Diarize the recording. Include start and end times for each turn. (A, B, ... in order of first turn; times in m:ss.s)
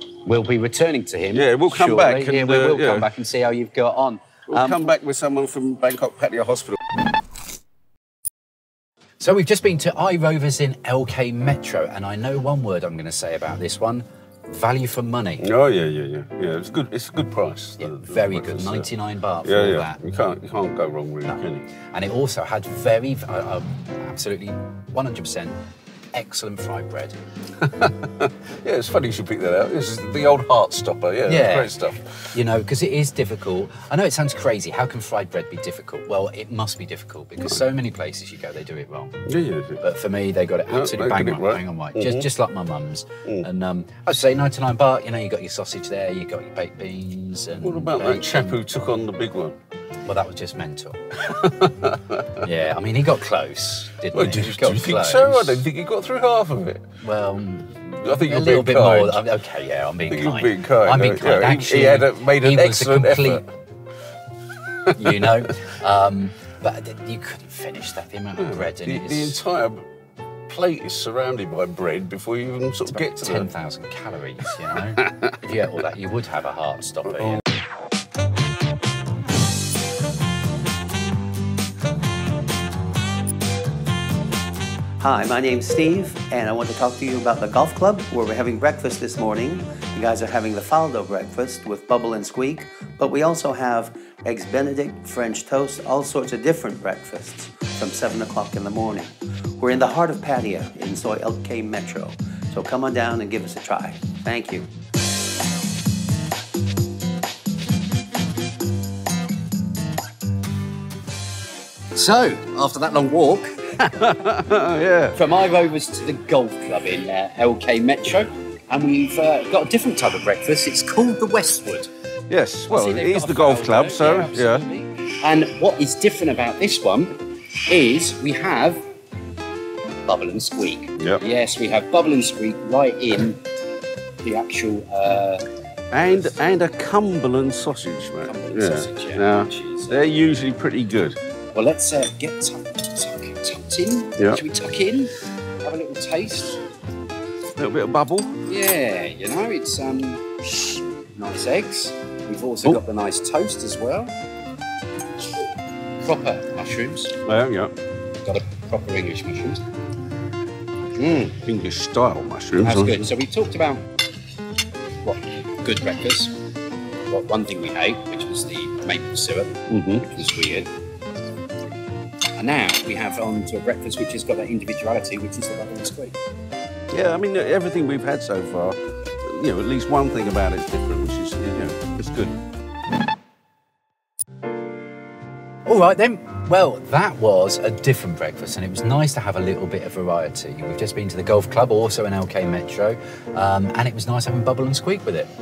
0:00.2-0:04.9 A
0:01.3-0:03.1 B
0:04.5-0:06.8 B
0:09.2-0:15.4 A
0:15.4-0:18.8 B
0:17.8-0:20.0 A
0:19.4-0:21.7 B
0:21.9-0:25.6 A
0:26.1-0:27.2 A
0:27.6-0:32.2 B
0:31.2-0:31.8 A
0:32.3-0:39.2 A
0:39.2-0:39.8 B
0:39.8-0:48.6 A
0:40.7-0:42.3 B
0:47.6-0:49.6 B
0:50.0-0:51.2 A
0:51.3-0:52.4 B
0:52.4-0:55.6 A
0:54.1-0:56.8 B
0:57.0-1:03.4 A
0:58.0-0:59.2 B
1:00.1-1:03.4 B
1:05.0-1:09.4 A
1:08.4-1:09.8 B
1:10.5-1:13.5 B
1:12.9-1:17.4 A
1:15.0-1:15.3 B
1:25.0-1:44.7 C
1:51.9-1:54.1 A
1:54.0-1:55.2 B
1:55.1-2:01.9 A
2:02.3-2:04.6 B
2:02.7-2:08.8 A
2:10.0-2:13.4 A
2:14.2-2:15.4 A
2:15.9-2:21.2 B
2:18.2-2:20.1 A
2:21.5-2:25.1 A
2:25.6-2:26.6 A
2:27.6-2:28.4 B
2:28.5-2:34.1 A
2:36.0-2:37.2 A
2:37.2-2:37.7 B
2:38.2-2:39.6 A
2:41.0-2:41.4 A
2:41.4-2:43.1 B
2:42.6-2:43.8 A
2:45.0-2:46.3 A
2:47.1-2:50.7 A
2:49.7-2:50.1 B
2:52.4-2:56.1 A
2:56.9-3:02.4 B
3:05.6-3:15.3 A